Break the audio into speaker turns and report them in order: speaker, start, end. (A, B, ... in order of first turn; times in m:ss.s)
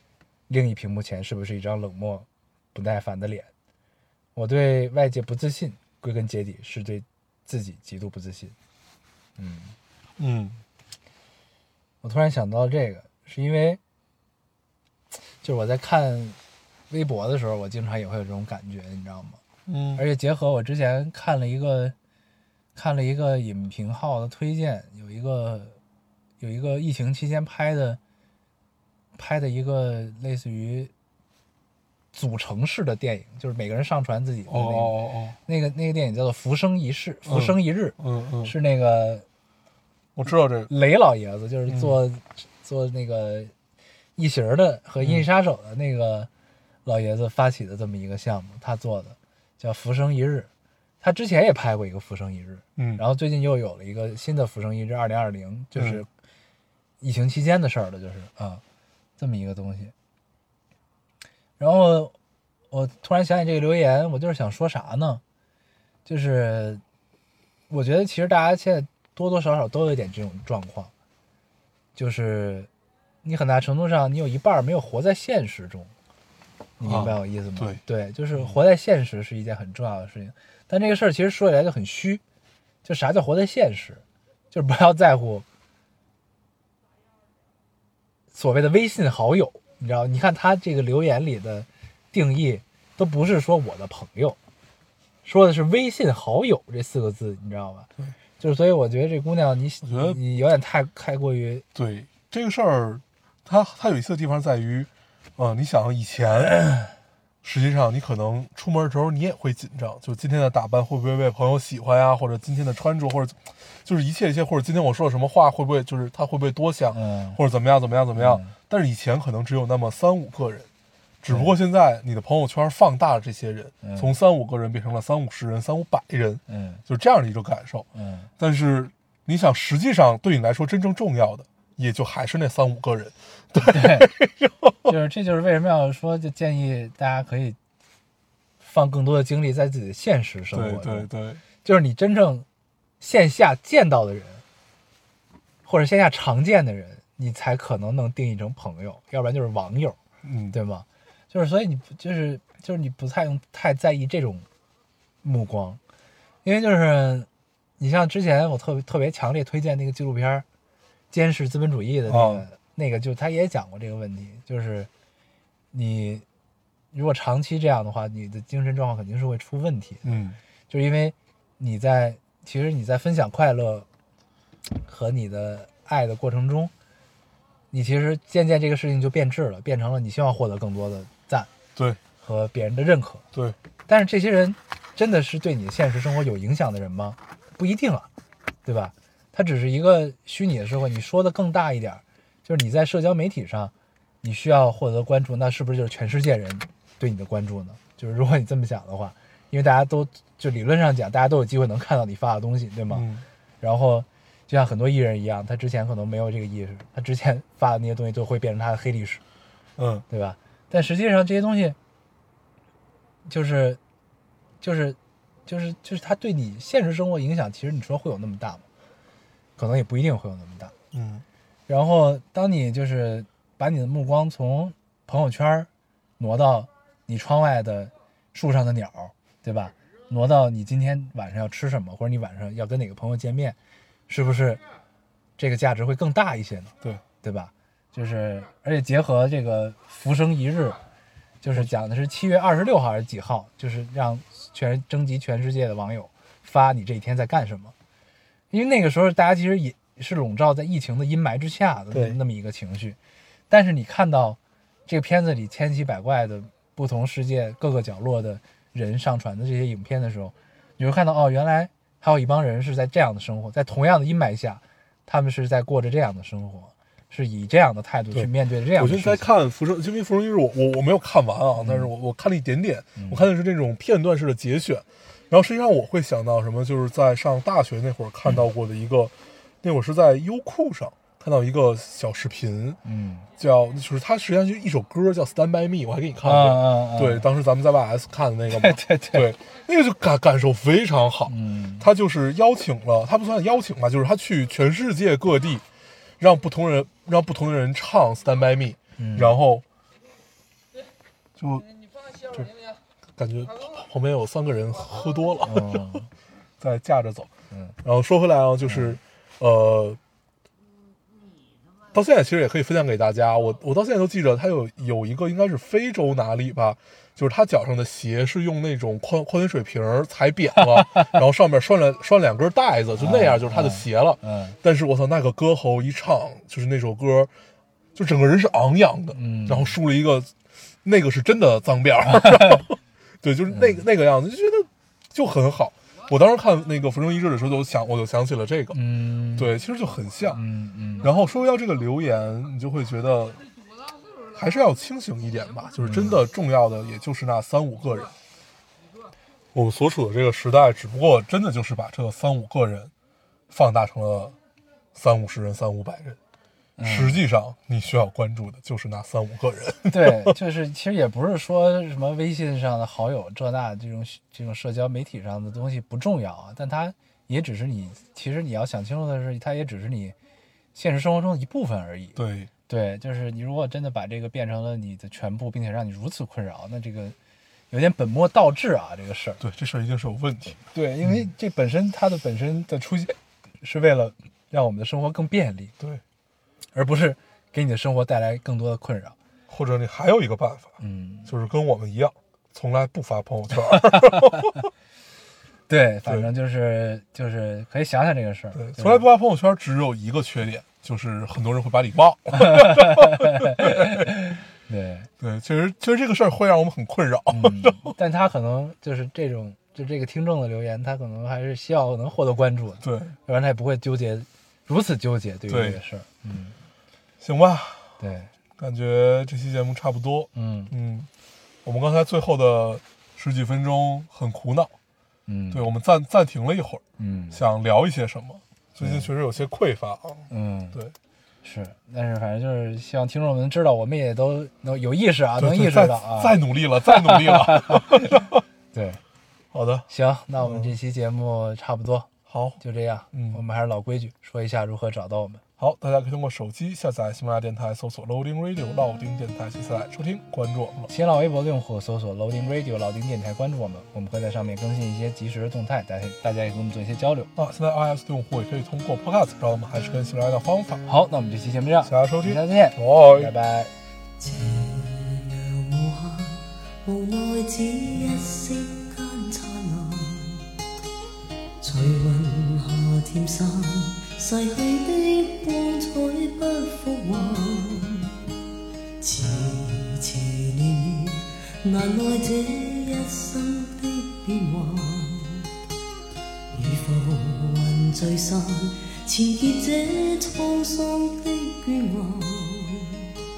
0:00.5-0:03.5 A
0:04.4-0:08.5 A
0:09.4-0:09.7 A
0:10.2-0:10.6 B
0:12.0-0:13.8 A
0:15.4-0:16.4 A
0:16.9-0:19.4 A
0:19.7-0:20.0 B
0:20.0-0:21.9 A
0:22.7-0:25.8 A
0:26.4-0:28.0 A
0:29.2-0:30.9 A
0:32.1-0:39.2 A
0:34.5-0:35.4 B
0:37.3-0:38.5 B
0:40.2-0:40.7 B
0:40.7-0:43.5 A
0:41.7-0:42.0 B
0:44.2-0:46.3 A
0:45.0-0:45.2 B
0:46.8-0:50.5 A
0:51.0-0:56.1 A
0:52.8-0:53.0 B
0:55.7-0:56.0 B
0:57.0-0:58.6 A
0:59.2-0:59.9 A
1:01.6-1:02.1 A
1:02.7-1:05.2 A
1:06.0-1:06.8 A
1:07.7-1:10.9 A
1:11.9-1:12.7 A
1:13.2-1:15.9 A
1:16.8-1:22.2 A
1:16.8-1:17.8 B
1:22.8-1:25.4 A
1:28.3-1:34.4 A
1:35.2-1:41.6 A
1:39.8-1:40.2 B
1:41.7-1:46.7 B
1:47.4-2:00.7 B
1:56.9-1:57.4 A
1:58.2-1:58.5 A
2:01.2-2:07.9 B
2:01.3-2:01.5 A
2:03.8-2:04.1 A
2:06.5-2:06.8 A
2:07.9-2:08.3 A
2:08.4-2:14.9 B
2:13.6-2:14.1 A
2:14.8-2:17.6 A
2:18.6-2:21.1 A
2:20.5-2:21.4 B
2:21.6-2:22.4 A
2:23.0-2:24.4 A
2:25.6-2:30.0 A
2:30.2-2:30.6 B
2:30.5-2:34.4 A
2:35.2-2:35.8 A
2:36.4-2:37.3 A
2:37.8-2:40.4 A
2:41.1-2:44.9 A
2:42.1-2:42.4 B
2:45.7-2:46.2 A
2:46.9-2:50.0 A
2:50.0-2:50.4 B
2:50.7-2:53.9 A
2:54.7-2:56.7 A
2:57.7-3:01.5 A
3:02.2-3:03.2 A
3:03.9-3:08.1 A
3:08.6-3:23.0 A
3:22.9-3:23.2 B
3:23.6-3:29.2 A
3:29.8-3:30.0 B
3:30.1-3:31.8 A
3:33.3-3:33.8 A
3:34.6-3:38.6 A
3:39.6-3:40.7 A
3:40.9-3:41.2 B
3:41.7-3:53.6 A
3:54.1-3:54.6 A
3:55.4-4:00.8 A
4:01.4-4:07.7 A
4:08.5-4:13.0 A
4:11.9-4:12.2 B
4:13.5-4:29.3 A
4:28.1-4:42.8 B
4:31.6-4:31.9 A
4:33.0-4:33.3 A
4:42.8-4:43.2 A
4:43.4-4:55.6 B
4:46.2-4:47.2 A
4:48.5-4:49.3 A
4:51.2-4:51.8 A
4:56.2-4:59.6 B
4:59.0-4:59.4 A
5:01.4-5:02.6 B
5:03.2-5:06.0 B
5:05.4-5:06.1 A
5:06.6-5:07.3 B
5:07.8-5:10.0 B
5:08.6-5:09.0 A
5:11.9-5:27.3 B
5:23.0-5:24.6 A
5:27.9-5:30.3 B
5:29.1-5:29.8 A
5:30.8-5:38.8 B
5:33.5-5:33.8 A
5:38.7-5:39.5 A
5:39.4-5:40.4 B
5:40.3-5:41.1 A
5:41.0-5:43.4 B
5:44.3-5:48.1 B
5:45.8-5:46.2 A
5:49.5-5:52.9 B
5:53.5-5:54.4 B
5:54.9-5:56.2 B
5:56.8-5:57.2 A
5:56.8-6:00.4 B
5:59.9-6:10.1 A
6:10.7-6:17.1 A
6:12.2-6:12.5 B
6:17.7-6:19.4 A
6:19.4-6:20.6 B
6:20.7-6:25.7 A
6:26.7-6:29.2 A
6:29.5-6:34.7 B
6:30.8-6:31.3 A
6:33.9-6:34.3 A
6:35.7-6:39.0 A
6:38.5-6:44.1 B
6:42.3-6:45.1 A
6:45.2-6:47.9 B
6:47.3-6:56.6 A
6:52.8-6:53.2 B
6:55.5-6:55.8 B
6:57.2-6:58.0 B
6:58.0-6:58.3 A
6:58.6-7:01.1 B
7:00.3-7:00.7 A
7:01.6-7:04.7 B
7:05.3-7:05.6 A
7:05.5-7:10.9 B
7:07.0-7:07.4 A
7:08.8-7:09.1 A
7:10.3-7:10.8 A
7:11.4-7:18.2 A
7:15.4-7:18.4 B
7:18.7-7:19.0 A
7:19.5-7:19.9 B
7:19.9-7:25.4 A
7:20.4-7:20.7 B
7:22.3-7:22.6 B
7:23.1-7:23.4 B
7:25.6-7:30.9 B
7:30.9-7:37.3 A
7:37.4-7:40.8 B
7:40.9-7:43.7 A
7:41.8-7:43.3 B
7:44.2-7:50.4 C
7:51.6-7:58.1 C
7:59.0-8:05.5 C
8:06.5-8:13.1 C